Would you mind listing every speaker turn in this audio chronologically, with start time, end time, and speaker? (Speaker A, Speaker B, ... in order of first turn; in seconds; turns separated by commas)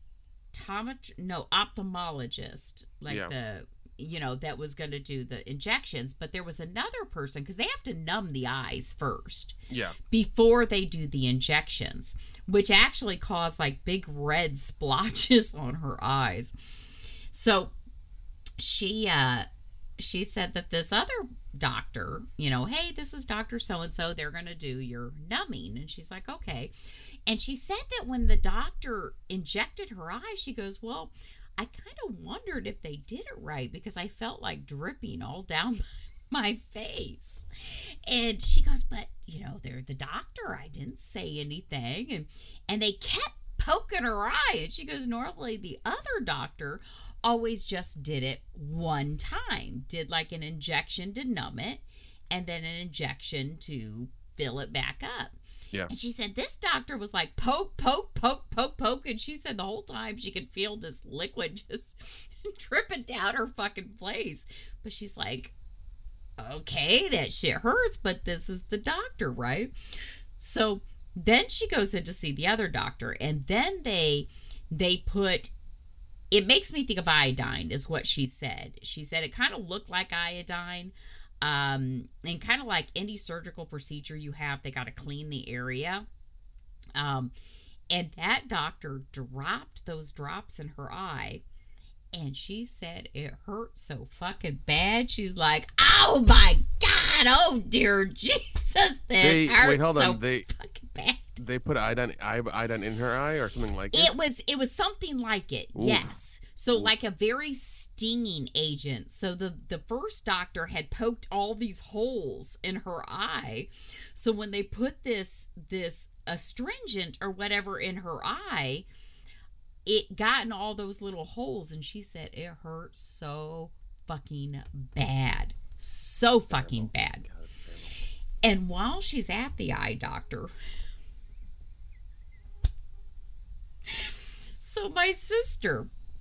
Speaker A: 0.5-9.6, Speaker B: 3.1-3.3, Speaker B: 9.7-10.0, Speaker A: 10.1-16.8, Speaker A: 17.3-17.7, Speaker A: 18.6-19.5, Speaker A: 20.0-55.4, Speaker A: 55.9-65.5, Speaker A: 66.4-69.7, Speaker A: 70.4-75.5, Speaker A: 76.3-86.1, Speaker A: 86.9-87.3, Speaker A: 87.9-91.4, Speaker A: 92.1-101.4, Speaker B: 99.2-100.5, Speaker B: 101.4-104.1, Speaker A: 103.9-118.9, Speaker B: 105.8-106.1, Speaker A: 119.9-127.3, Speaker B: 126.5-127.9, Speaker A: 128.4-130.5, Speaker A: 133.9-135.9